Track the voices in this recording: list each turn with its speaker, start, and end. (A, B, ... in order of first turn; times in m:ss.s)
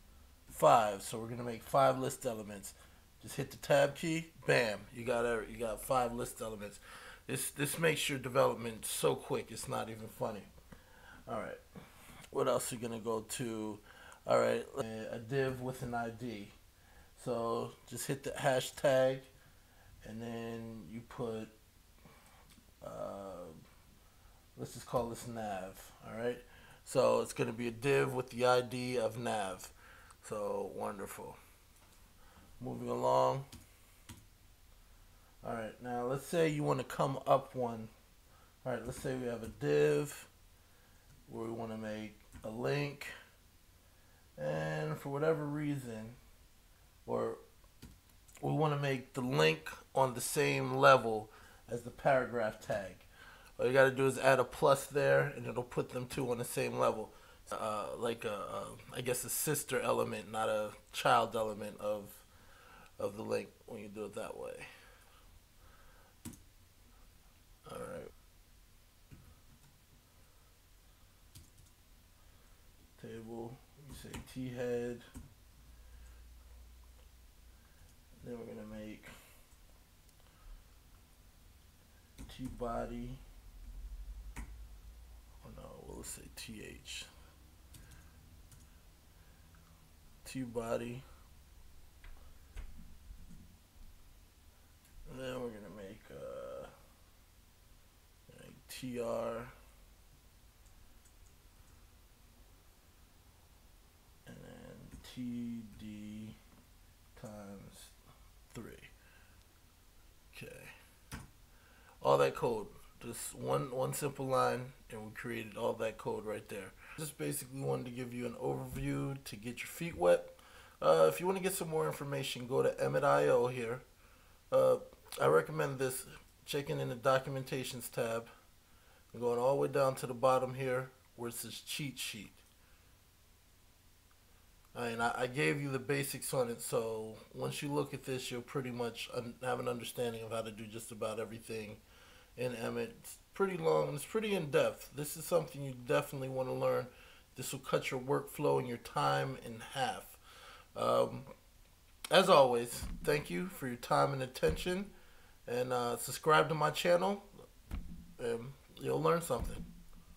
0:00.5-0:10.5 A
0:11.3-0:11.6 A
0:12.3-0:16.5 A
0:17.2-0:19.3 A
0:20.0-0:21.5 A
0:22.8-0:23.6 A
0:24.6-0:31.4 A
0:32.6-0:33.5 A
0:35.4-0:37.9 A
0:38.6-0:40.3 A
0:41.3-0:43.1 A
0:44.4-0:46.2 A
0:47.0-0:47.4 A
0:48.4-0:53.0 A
0:53.6-1:02.3 A
1:03.0-1:04.7 A
1:07.6-1:08.1 A
1:13.0-1:15.0 A
1:18.2-1:19.1 A
1:22.2-1:23.2 A
1:25.4-1:27.1 A
1:30.2-1:31.0 A
1:35.0-1:36.7 A
1:38.3-1:39.5 A
1:44.2-1:46.4 A
1:47.1-1:47.9 A
1:48.5-1:48.9 A
1:50.3-1:50.7 A
1:52.0-2:03.8 A
2:04.5-2:08.3 A
2:09.1-2:12.4 A
2:14.7-2:21.8 A
2:22.4-2:30.2 A
2:30.7-2:31.3 A
2:32.1-2:34.9 A
2:35.4-2:37.3 A
2:38.2-2:39.7 A